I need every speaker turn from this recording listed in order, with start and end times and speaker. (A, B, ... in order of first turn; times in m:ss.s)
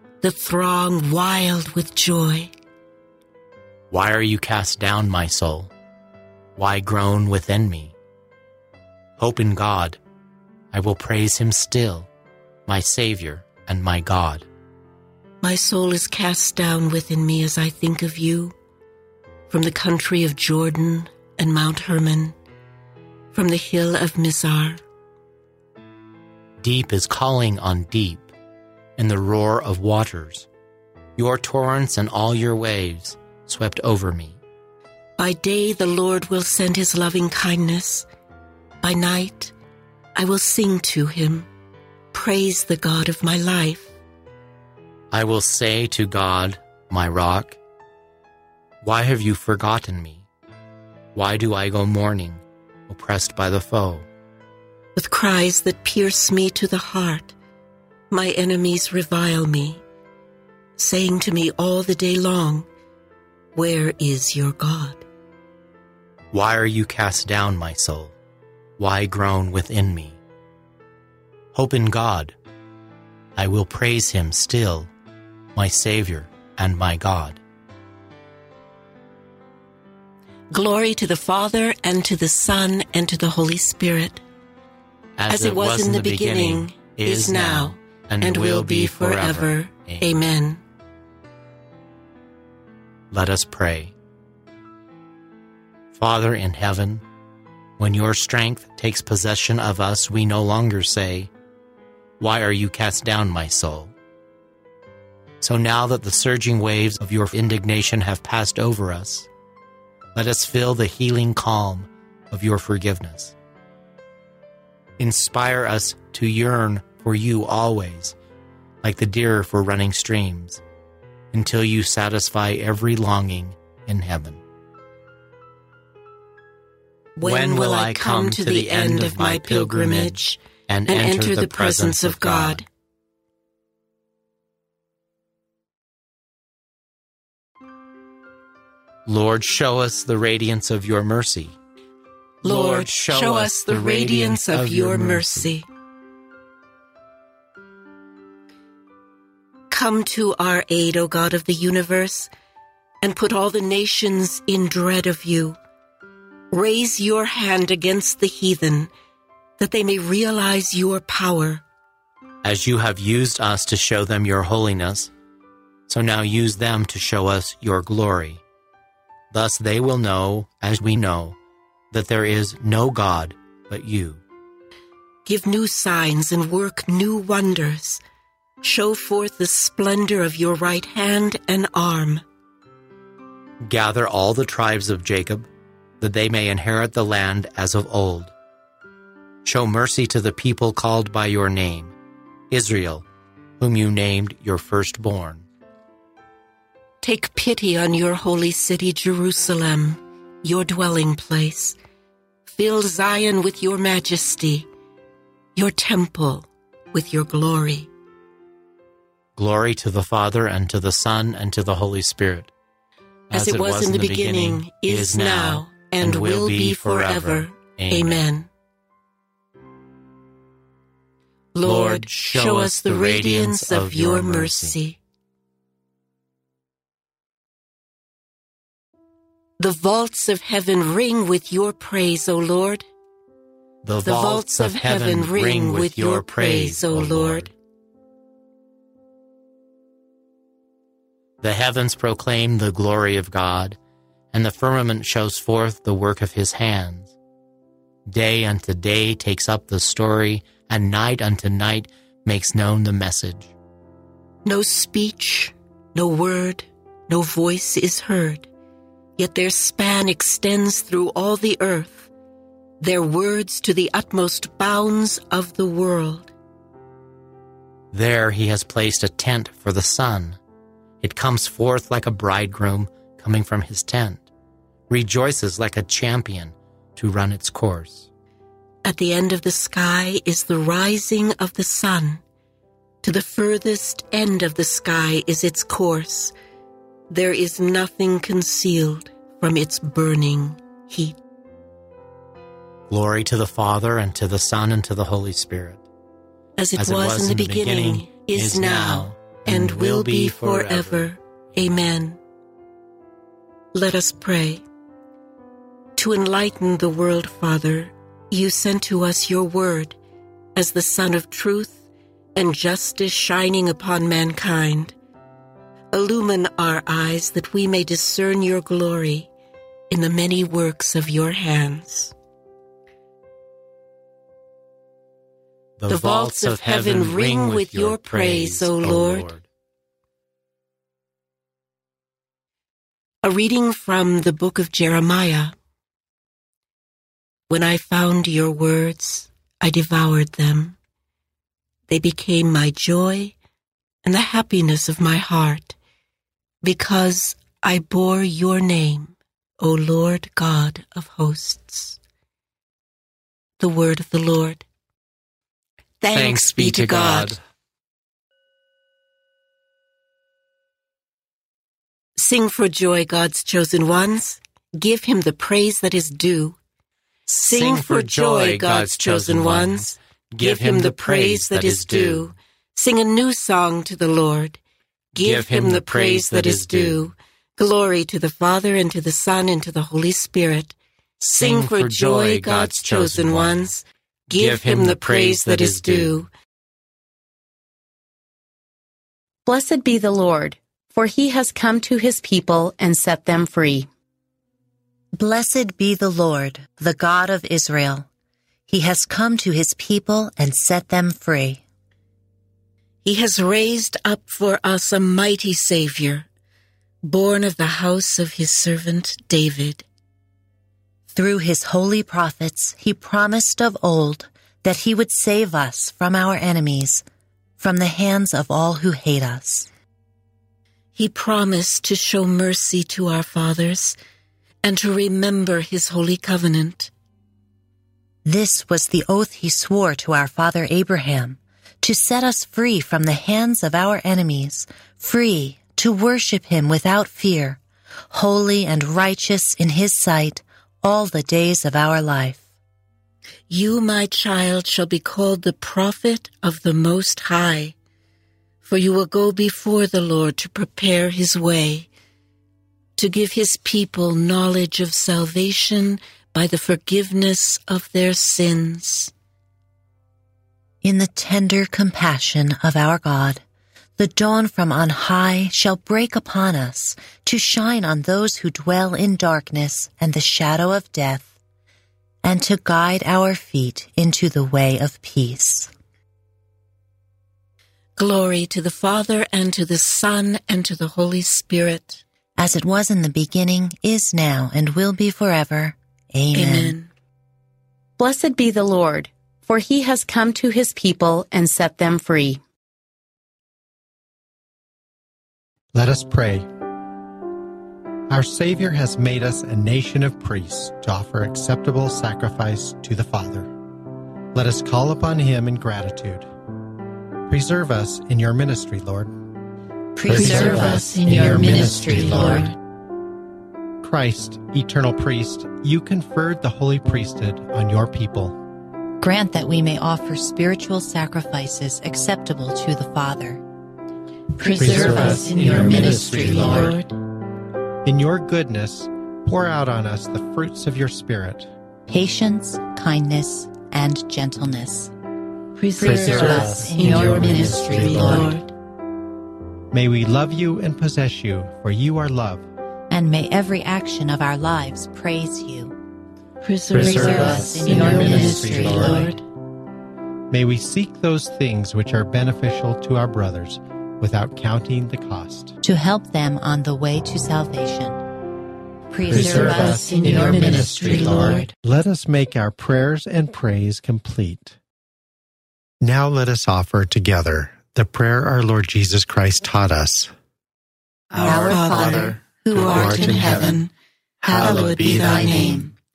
0:00.2-0:02.5 A
0:03.9-0:05.7 B
0:06.6-0:07.9 B
0:09.2-0:10.0 B
0:10.7-0:12.1 B
0:12.6-0:14.5 B
0:15.4-0:18.5 A
0:19.5-0:22.3 A
0:23.3-0:24.8 A
0:26.6-0:28.3 B
0:29.0-0:30.5 B
0:31.2-0:34.4 B
0:35.2-0:38.0 A
0:38.8-0:39.5 A
0:40.2-0:41.5 A
0:42.1-0:44.0 A
0:45.1-0:47.6 B
0:48.8-0:50.2 B
0:51.1-0:54.0 B
0:54.9-0:57.3 A
0:58.1-0:59.8 A
1:00.8-1:02.6 A
1:03.5-1:05.0 A
1:06.3-1:08.1 B
1:08.8-1:10.2 B
1:11.5-1:12.3 B
1:13.4-1:14.9 B
1:15.5-1:17.4 B
1:20.5-1:24.2 A
1:25.2-1:30.1 B
1:25.3-1:30.6 A
1:33.1-1:33.9 B
1:35.9-1:37.0 B
1:37.8-1:41.3 B
1:42.2-1:43.9 B
1:45.4-1:49.3 B
1:50.2-1:53.3 B
1:55.0-1:58.1 B
1:58.8-2:00.6 B
2:01.3-2:04.4 B
2:07.2-2:12.6 A
2:07.2-2:12.6 B
2:19.0-2:21.6 B
2:22.4-2:25.5 B
2:22.4-2:25.6 A
2:29.7-2:32.3 A
2:33.0-2:35.6 A
2:36.5-2:38.9 A
2:39.6-2:41.6 A
2:42.4-2:45.1 B
2:45.9-2:48.4 B
2:49.3-2:51.4 B
2:51.9-2:54.2 B
2:55.2-2:58.0 A
2:58.6-3:02.2 A
3:03.6-3:05.5 B
3:06.0-3:08.3 B
3:09.4-3:11.9 B
3:12.5-3:13.0 B
3:13.6-3:15.4 B
3:17.0-3:21.8 A
3:22.4-3:24.7 A
3:25.6-3:27.9 A
3:29.4-3:32.5 B
3:33.3-3:38.2 B
3:33.3-3:38.5 A
3:41.5-3:45.0 A
3:41.6-3:44.8 B
3:49.6-3:52.8 A
3:53.8-3:57.5 B
3:54.0-3:57.5 A
4:01.4-4:03.8 B
4:04.3-4:07.1 B
4:08.0-4:13.5 B
4:14.4-4:18.5 A
4:19.2-4:22.1 A
4:22.8-4:26.3 A
4:27.9-4:30.4 B
4:31.0-4:34.3 B
4:34.9-4:38.1 B
4:38.8-4:42.2 A
4:43.0-4:46.3 A
4:47.1-4:51.2 A
4:52.9-4:55.8 B
4:56.6-5:02.2 A
4:56.8-5:01.1 B
5:03.7-5:04.6 A
5:06.0-5:10.0 A
5:10.5-5:14.9 A
5:15.9-5:19.3 A
5:19.9-5:22.1 A
5:25.8-5:29.4 B
5:25.9-5:29.3 A
5:33.2-5:35.5 A
5:37.5-5:40.8 A
5:41.9-5:43.3 A
5:44.0-5:45.8 A
5:46.6-5:52.0 A
5:53.6-5:54.6 A
5:56.0-5:57.4 A
5:56.1-5:57.4 B
6:02.2-6:06.6 A
6:07.3-6:12.3 B
6:07.3-6:14.6 A
6:15.2-6:17.0 B
6:15.2-6:26.3 A
6:21.2-6:23.7 B
6:24.3-6:26.2 B
6:29.4-6:33.9 C
6:35.2-6:38.1 D
6:38.7-6:41.6 D
6:43.0-6:46.3 A
6:47.0-6:49.8 A
6:51.1-6:57.0 D
6:57.6-6:59.7 D
7:00.9-7:04.0 A
7:04.6-7:06.9 A
7:08.2-7:17.6 D
7:18.1-7:22.4 D
7:23.5-7:27.7 A
7:28.6-7:31.9 A
7:33.0-7:39.1 A
7:40.8-7:43.4 D
7:44.0-7:51.3 D
7:52.2-7:55.7 D
7:58.0-8:02.0 A
8:02.4-8:06.6 D
8:06.3-8:06.9 A
8:06.4-8:06.7 E
8:08.0-8:12.4 C
8:15.7-8:16.5 F
8:18.1-8:23.5 F
8:24.3-8:26.3 F
8:27.3-8:29.1 F
8:30.0-8:32.5 E
8:30.0-8:32.5 F
8:30.1-8:32.5 A
8:33.8-8:38.4 F
8:39.0-8:43.4 E
8:44.4-8:47.0 A
8:44.5-8:46.8 F
8:44.6-8:46.7 E
8:47.8-8:51.5 F
8:51.9-8:54.9 E
8:55.6-8:58.5 A
8:55.8-8:58.4 E
8:55.8-8:58.4 F
8:59.7-9:02.4 F
9:02.9-9:05.7 E
9:06.4-9:09.2 A
9:06.7-9:09.2 E
9:06.7-9:09.1 F
9:10.3-9:15.6 F
9:15.6-9:18.0 E
9:18.9-9:21.5 E
9:19.0-9:21.5 A
9:19.1-9:24.6 F
9:25.8-9:30.1 F
9:31.1-9:33.5 B
9:31.2-9:33.6 E
9:31.2-9:33.7 A
9:34.2-9:35.7 E
9:34.3-9:35.7 A
9:34.4-9:35.4 B